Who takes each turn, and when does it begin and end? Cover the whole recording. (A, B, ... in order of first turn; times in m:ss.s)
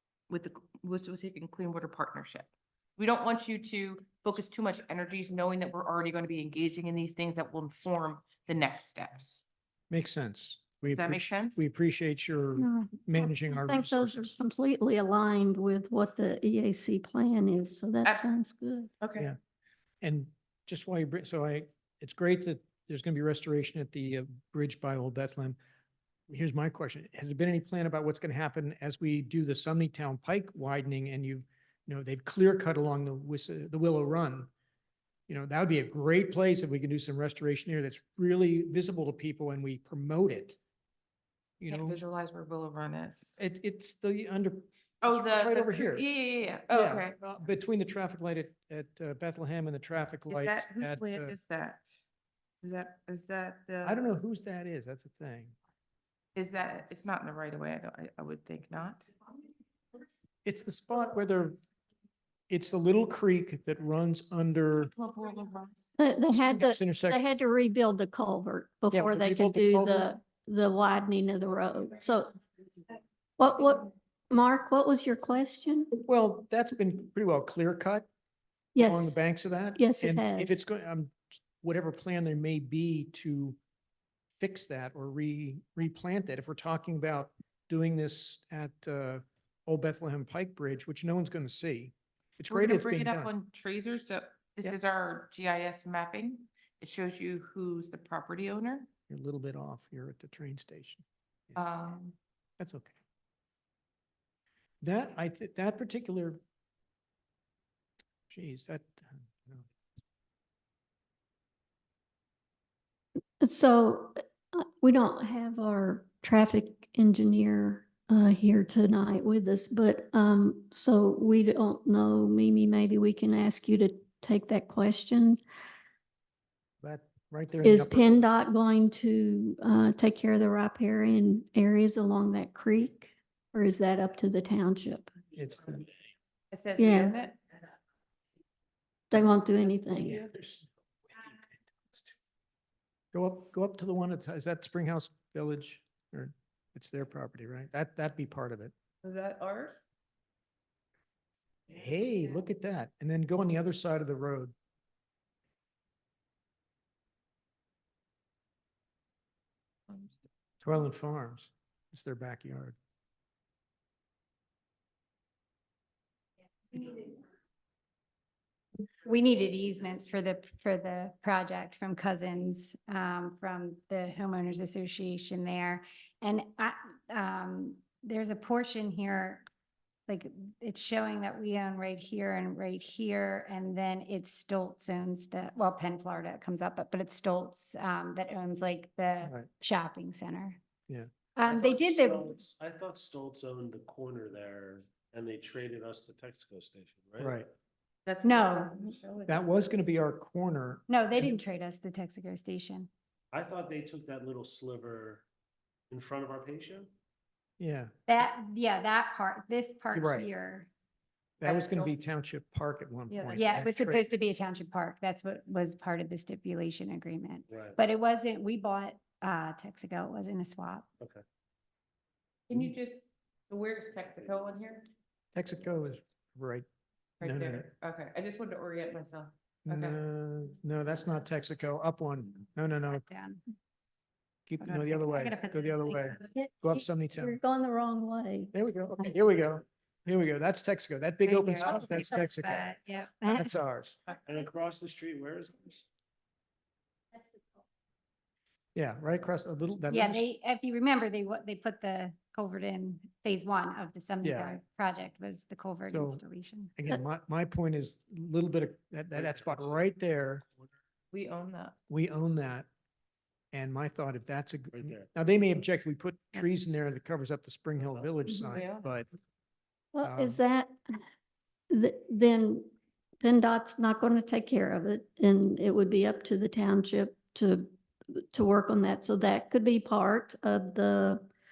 0:00.3-0:09.4 A
0:09.9-0:14.3 B
0:10.9-0:11.6 A
0:12.6-0:18.9 C
0:18.0-0:18.3 A
0:19.0-0:19.3 A
0:20.0-0:25.6 B
0:26.3-0:34.5 B
0:35.3-0:40.6 B
0:41.6-0:42.0 B
0:41.7-0:43.4 A
0:43.4-0:46.0 B
0:45.0-0:47.2 A
0:46.7-0:51.3 B
0:50.3-0:52.0 A
0:52.6-0:54.0 A
0:53.8-0:55.5 B
0:56.3-0:59.1 A
1:00.4-1:01.6 B
1:02.5-1:04.9 B
1:04.8-1:05.7 A
1:06.0-1:12.3 C
1:06.3-1:07.2 B
1:08.9-1:10.1 B
1:13.4-1:15.9 C
1:16.0-1:18.1 B
1:18.7-1:19.2 C
1:18.8-1:23.6 B
1:19.8-1:20.6 C
1:24.4-1:33.3 B
1:32.5-1:38.9 A
1:39.1-1:41.6 B
1:41.6-1:42.2 A
1:42.6-1:42.9 B
1:44.8-1:46.4 B
1:48.3-1:49.7 B
1:53.4-2:05.4 C
2:06.8-2:08.3 B
2:07.6-2:15.1 C
2:15.3-2:15.8 B
2:16.5-2:17.4 A
2:16.8-2:17.1 C
2:19.1-2:20.2 C
2:20.0-2:22.0 D
2:23.1-2:28.7 B
2:29.0-2:29.8 A
2:31.7-2:34.5 B
2:40.6-2:42.8 B
2:46.7-2:47.2 E
2:49.0-2:59.4 E
3:00.1-3:10.6 E
3:09.2-3:09.5 B
3:10.9-3:11.3 B
3:11.4-3:12.3 E
3:11.4-3:17.4 D
3:17.2-3:17.5 B
3:18.0-3:19.0 A
3:18.2-3:19.5 E
3:19.2-3:21.4 B
3:20.9-3:22.9 E
3:23.3-3:25.2 D
3:25.9-3:26.9 D
3:27.6-3:27.9 B
3:28.1-3:30.7 E
3:29.9-3:30.3 B
3:31.4-3:34.0 B
3:31.4-3:31.9 E
3:33.1-3:33.6 A
3:33.4-3:40.8 E
3:37.5-3:37.8 D
3:42.5-3:44.8 A
3:45.3-3:46.6 B
3:47.2-3:50.0 A
3:47.2-3:47.7 B
3:49.6-3:53.0 B
3:52.8-3:53.4 E
3:54.5-3:57.4 B
3:54.6-3:56.2 E
3:56.3-3:58.5 C
3:58.5-4:02.7 B
4:01.2-4:03.5 E
4:03.3-4:04.0 B
4:04.2-4:05.8 D
4:08.7-4:10.2 B
4:09.9-4:16.7 E
4:14.2-4:14.5 B
4:15.8-4:16.2 B
4:16.7-4:20.4 B
4:19.1-4:19.9 D
4:21.1-4:21.8 A
4:21.9-4:22.7 B
4:23.5-4:29.1 B
4:24.7-4:25.1 D
4:27.8-4:28.2 D
4:28.4-4:28.9 A
4:29.9-4:30.7 C
4:30.0-4:30.4 B
4:31.7-4:32.7 C
4:33.2-4:41.2 C